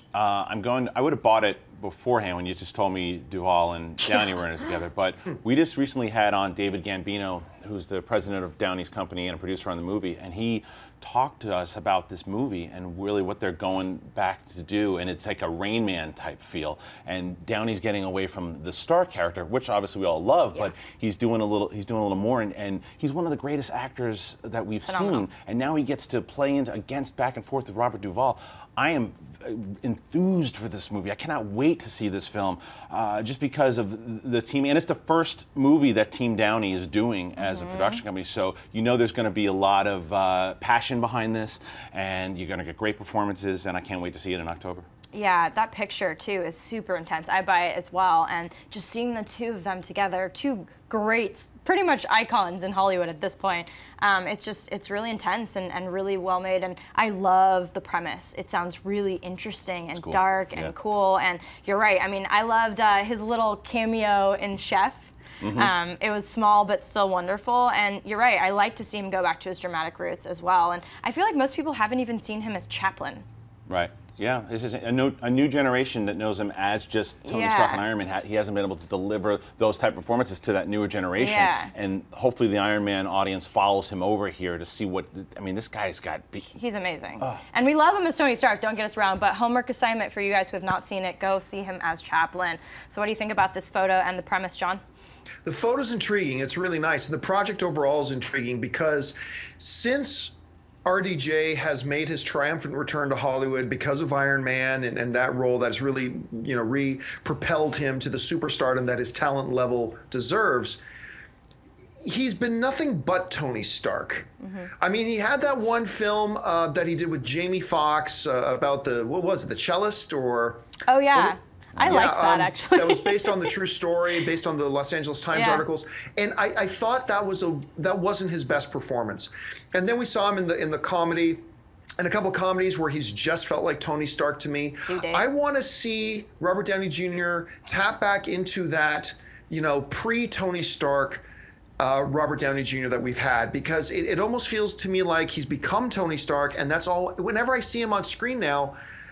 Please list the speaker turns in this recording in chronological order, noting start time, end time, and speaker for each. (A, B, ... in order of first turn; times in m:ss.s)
0:00.1-0:44.9 A
0:24.9-0:25.3 B
0:37.4-0:38.0 B
0:45.1-1:13.2 B
1:00.0-1:00.7 A
1:05.4-1:05.7 A
1:13.7-1:26.5 A
1:17.2-1:17.8 B
1:21.2-1:21.7 B
1:26.5-1:34.8 B
1:35.4-1:40.3 C
1:40.8-1:50.8 C
1:52.0-2:11.4 C
1:54.4-1:54.7 B
2:00.9-2:03.5 B
2:05.3-2:05.6 B
2:12.0-2:21.2 C
2:14.9-2:15.2 B
2:21.8-2:28.8 C